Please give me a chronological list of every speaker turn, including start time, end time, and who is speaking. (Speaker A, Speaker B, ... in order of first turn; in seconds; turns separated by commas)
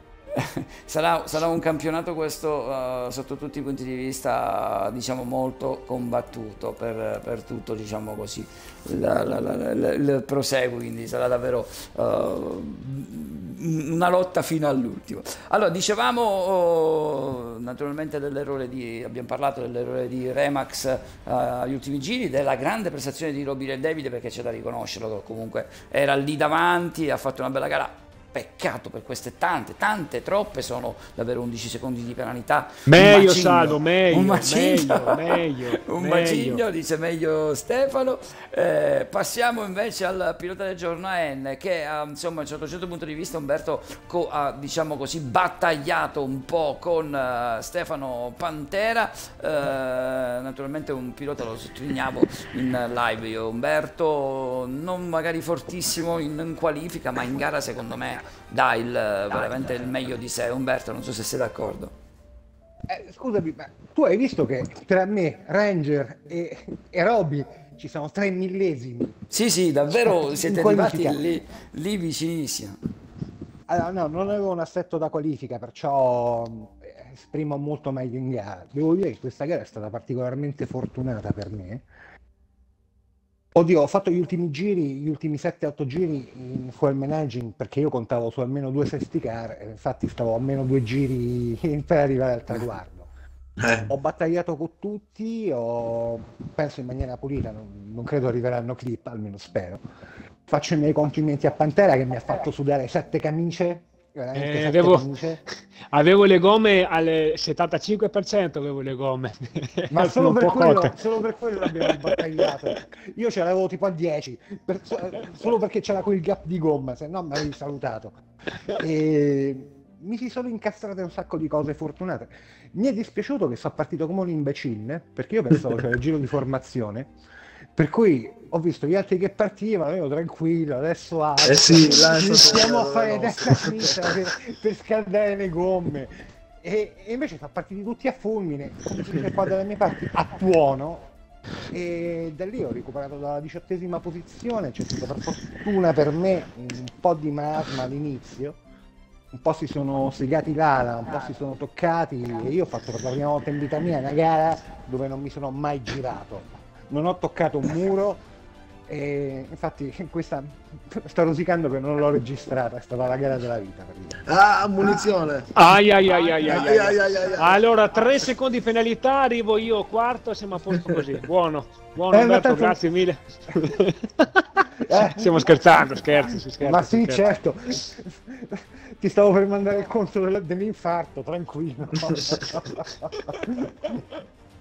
Speaker A: 0.3-61.9, Speaker B: 32.9-36.6, Speaker C: 62.9-69.2, Speaker A: 69.3-72.8, Speaker C: 69.9-71.2, Speaker C: 73.7-81.9, Speaker C: 83.5-93.1, Speaker D: 93.6-93.9, Speaker C: 93.9-99.8, Speaker C: 100.5-105.4, Speaker B: 104.3-105.1, Speaker B: 105.8-110.9, Speaker C: 109.9-127.1, Speaker C: 127.8-141.1, Speaker D: 131.4-134.2, Speaker C: 141.7-148.6, Speaker C: 149.3-158.2, Speaker C: 158.9-164.2, Speaker D: 164.2-165.5, Speaker B: 165.5-174.4, Speaker D: 166.4-167.6, Speaker C: 172.1-172.8, Speaker C: 174.8-184.0, Speaker B: 175.1-177.3